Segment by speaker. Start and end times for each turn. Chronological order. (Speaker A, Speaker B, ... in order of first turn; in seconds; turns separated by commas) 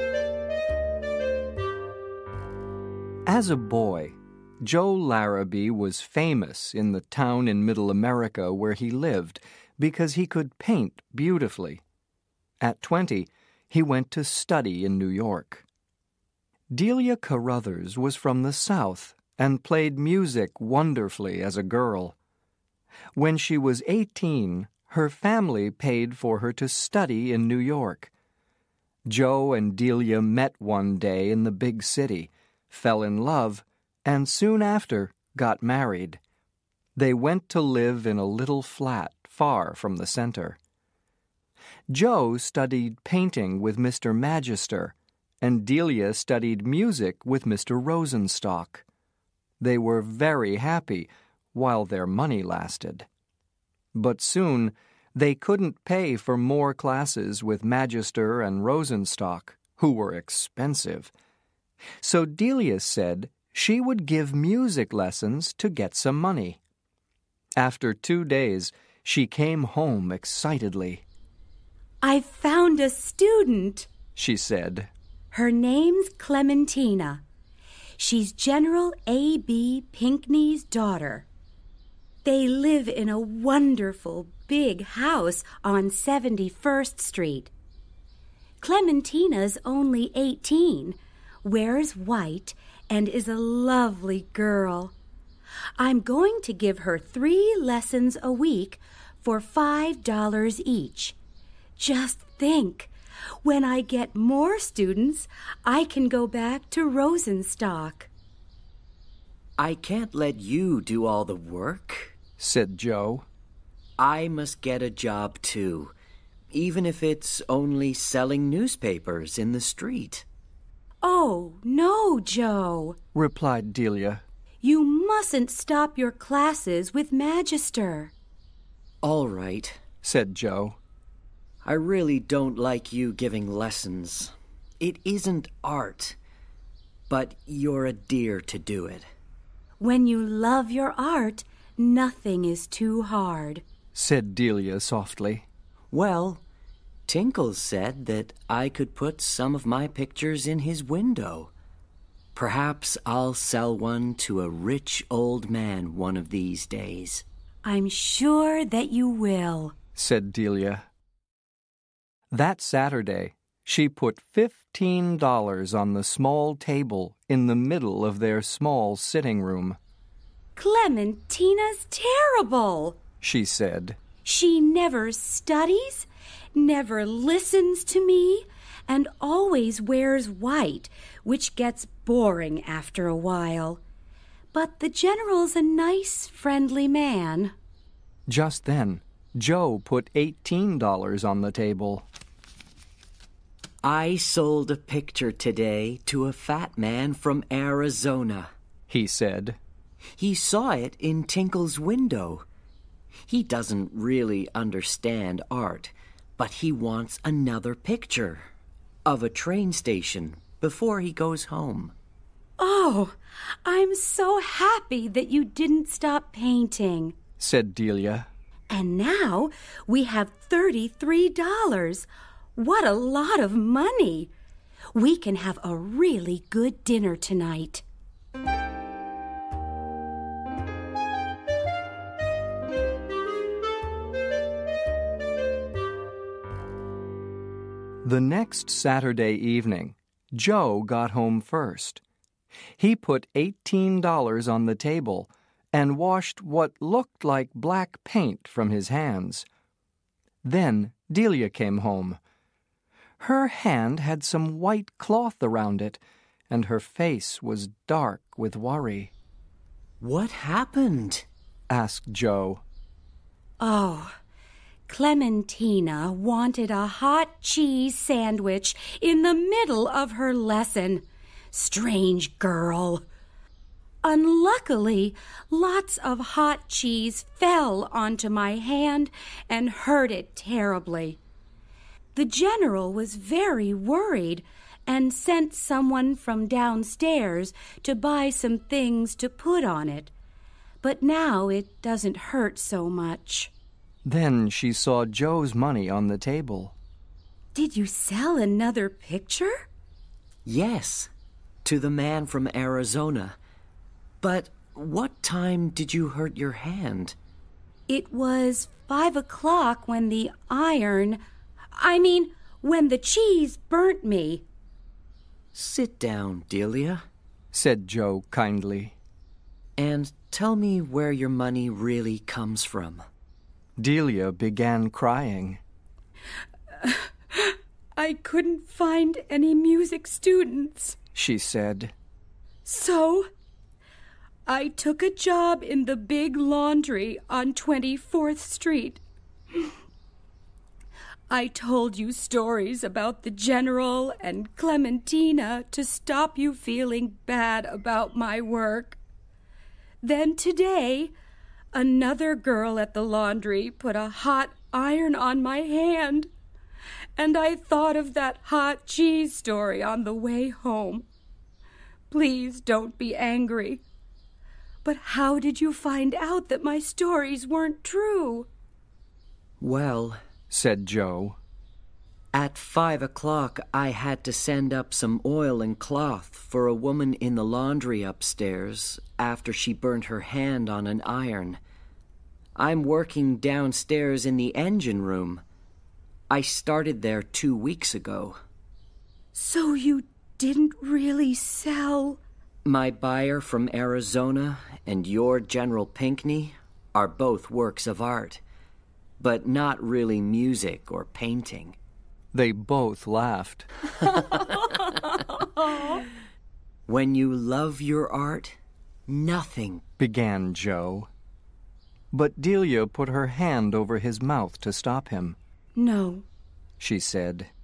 Speaker A: 3.3-11.8, Speaker A: 12.6-15.6, Speaker A: 16.7-22.1, Speaker A: 23.1-28.1, Speaker A: 29.1-36.2, Speaker A: 37.0-40.6, Speaker A: 41.9-48.8, Speaker A: 49.6-53.1, Speaker A: 53.9-61.1, Speaker A: 62.0-66.6, Speaker A: 67.6-71.0, Speaker B: 72.0-73.9, Speaker A: 74.2-74.9, Speaker B: 75.3-77.2, Speaker B: 78.0-81.2, Speaker B: 82.2-87.5, Speaker B: 88.6-94.9, Speaker B: 95.8-101.2, Speaker B: 101.8-102.9, Speaker B: 103.4-108.1, Speaker C: 109.6-112.2, Speaker A: 112.4-113.2, Speaker C: 114.0-115.9, Speaker C: 116.5-120.2, Speaker B: 121.0-123.0, Speaker A: 123.1-124.2, Speaker B: 124.6-128.1, Speaker C: 129.0-129.8, Speaker A: 130.0-130.8, Speaker C: 131.6-136.2, Speaker C: 137.1-139.1, Speaker B: 139.8-143.6, Speaker A: 143.9-145.4, Speaker C: 145.9-146.4, Speaker C: 147.1-151.5, Speaker C: 152.3-157.2, Speaker B: 157.6-159.7, Speaker A: 159.9-160.8, Speaker A: 162.3-169.8, Speaker B: 170.6-173.0, Speaker A: 173.2-174.0, Speaker B: 174.2-183.8, Speaker B: 184.5-187.5, Speaker A: 188.3-192.1, Speaker C: 193.8-198.5, Speaker A: 198.9-199.6, Speaker C: 200.2-202.4, Speaker C: 203.3-208.5, Speaker C: 209.1-211.9, Speaker B: 212.6-217.1, Speaker A: 217.4-218.3, Speaker B: 218.7-224.3, Speaker B: 224.9-227.8, Speaker A: 238.0-242.0, Speaker A: 242.8-249.5, Speaker A: 250.4-252.2, Speaker A: 253.2-259.1, Speaker C: 260.0-261.2, Speaker A: 261.7-262.6, Speaker B: 263.6-264.1, Speaker B: 264.9-273.0, Speaker B: 274.0-281.2, Speaker B: 282.1-290.1, Speaker B: 290.8-293.5, Speaker A: 294.0-296.7, Speaker B: 297.5-299.6, Speaker C: 300.4-301.1, Speaker C: 301.6-303.4, Speaker C: 304.2-307.1, Speaker B: 307.9-311.2, Speaker B: 311.7-314.4, Speaker C: 315.5-317.0, Speaker A: 317.5-318.9, Speaker C: 319.8-323.0, Speaker A: 323.8-325.6, Speaker B: 326.8-331.0, Speaker A: 331.1-331.9, Speaker B: 332.6-333.3, Speaker B: 334.5-339.0, Speaker B: 341.3-349.0, Speaker B: 350.0-351.1, Speaker B: 351.7-356.3, Speaker B: 357.1-361.1, Speaker B: 362.1-363.8, Speaker B: 364.8-368.5, Speaker C: 369.6-370.2, Speaker A: 370.5-371.4, Speaker C: 372.3-381.6, Speaker C: 382.6-385.4, Speaker C: 386.3-388.4, Speaker B: 389.3-392.2, Speaker C: 392.6-398.4, Speaker C: 399.2-401.8, Speaker A: 402.3-403.7, Speaker C: 406.9-409.8, Speaker A: 410.0-411.1, Speaker A: 412.1-415.4, Speaker B: 415.7-416.2, Speaker A: 416.8-417.5